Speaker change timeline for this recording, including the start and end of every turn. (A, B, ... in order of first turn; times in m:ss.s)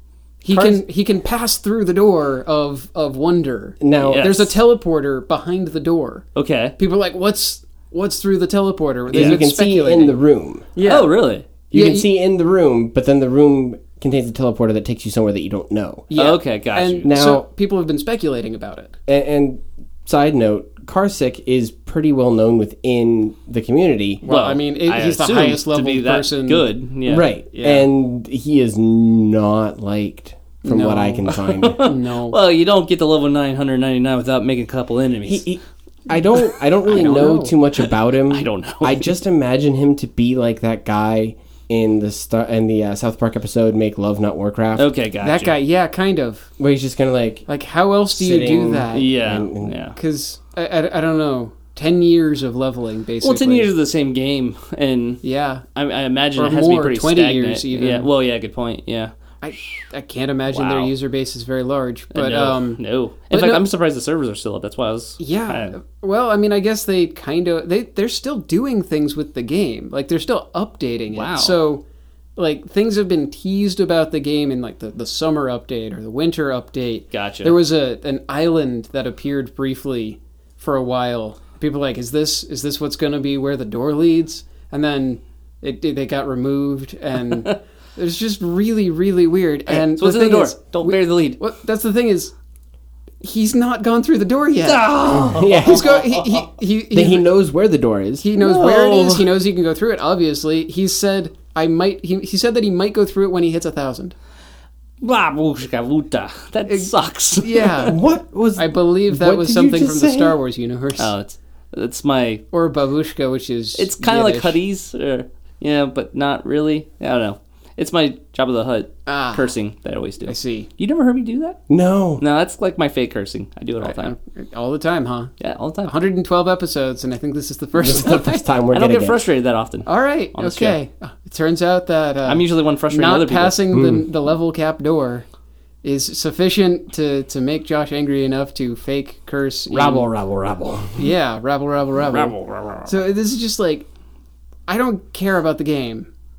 0:00.4-0:06.3 A
0:00.5-0:00.8 B
0:03.8-0:04.3 B
0:04.0-0:04.5 C
0:06.4-0:06.8 C
0:06.8-0:10.2 A
0:09.1-0:10.7 B
0:09.1-0:09.4 C
0:10.8-0:12.1 A
0:10.8-0:11.5 C
0:11.7-0:16.1 B
0:16.1-0:19.0 A
0:16.2-0:17.1 C
0:17.0-0:17.5 B
0:19.1-0:24.2 B
0:24.2-0:26.7 A
0:24.2-0:27.3 C
0:27.1-0:31.8 B
0:27.5-0:27.9 A
0:30.6-0:32.4 A
0:31.4-0:35.4 C
0:35.2-0:44.9 B
0:36.9-0:37.6 A
0:37.8-0:39.1 C
0:44.8-0:45.6 C
0:45.2-0:46.5 A
0:46.6-0:47.5 B
0:47.5-0:49.2 A
0:48.1-0:49.8 B
0:48.9-0:50.0 C
0:50.0-0:53.7 A
0:53.2-0:55.2 C
0:55.2-0:55.7 A
0:55.8-0:59.9 C
0:56.4-0:58.1 A
0:59.4-1:03.6 A
1:00.5-1:00.9 C
1:02.1-1:05.8 C
1:05.2-1:11.8 A
1:11.1-1:11.6 C
1:12.4-1:32.3 A
1:17.1-1:17.6 C
1:29.7-1:31.4 C
1:33.2-1:34.9 A
1:34.6-1:36.4 C
1:35.1-1:36.0 B
1:35.4-1:37.3 A
1:36.9-1:38.3 B
1:38.2-1:44.2 A
1:38.4-1:39.3 C
1:45.0-1:48.0 C
1:46.7-1:48.0 A
1:47.9-1:50.4 B
1:48.6-1:51.1 A
1:51.0-1:52.4 C
1:52.5-1:54.6 A
1:53.8-2:01.6 C
1:59.1-1:59.5 A
2:00.2-2:00.7 A
2:01.7-2:02.2 B
2:02.2-2:04.2 C
2:03.8-2:05.4 A
2:05.4-2:06.0 C
2:05.9-2:08.4 A
2:07.8-2:09.2 B
2:08.7-2:10.8 C
2:09.9-2:15.3 A
2:12.3-2:13.6 C
2:13.7-2:14.1 B
2:15.8-2:20.1 A
2:19.7-2:21.1 B
2:21.0-2:22.3 A
2:22.0-2:23.0 C
2:22.9-2:23.9 A
2:24.7-2:26.1 A